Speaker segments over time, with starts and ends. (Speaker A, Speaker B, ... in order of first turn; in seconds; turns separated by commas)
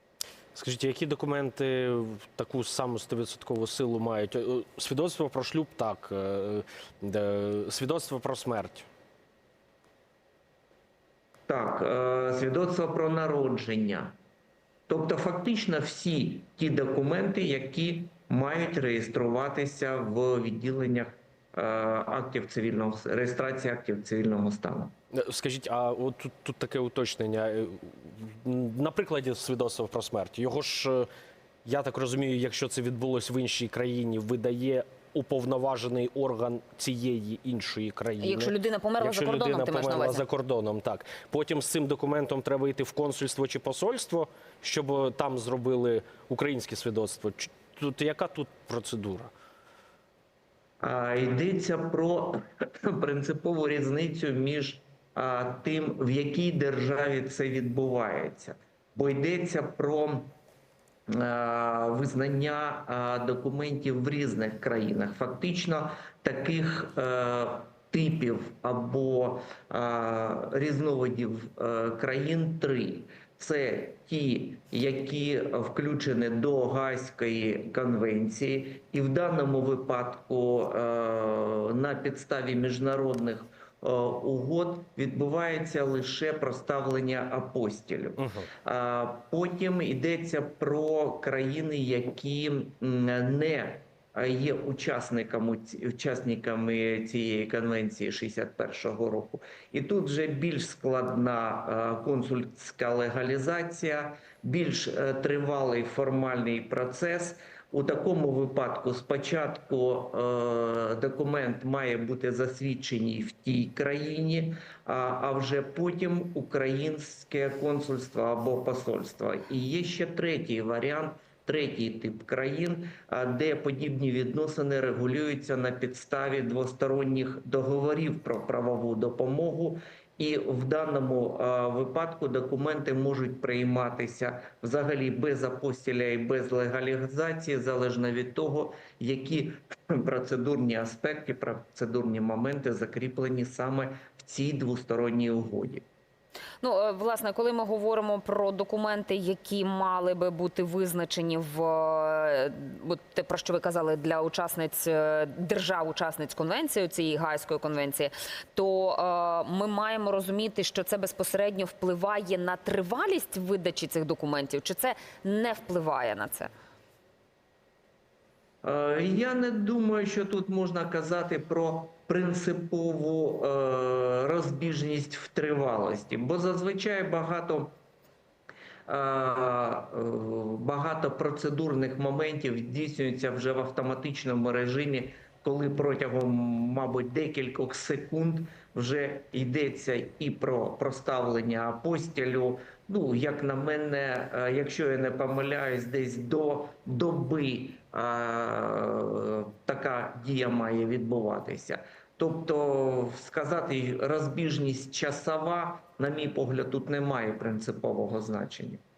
Speaker A: 0.5-8.9, Speaker B: 11.5-14.1, Speaker B: 14.9-24.9, Speaker A: 25.1-31.1, Speaker A: 31.6-49.3, Speaker C: 38.2-40.2, Speaker B: 50.8-60.3, Speaker B: 61.1-145.8, Speaker A: 88.2-88.5, Speaker C: 146.6-166.5, Speaker B: 168.6-177.7, Speaker B: 178.9-208.8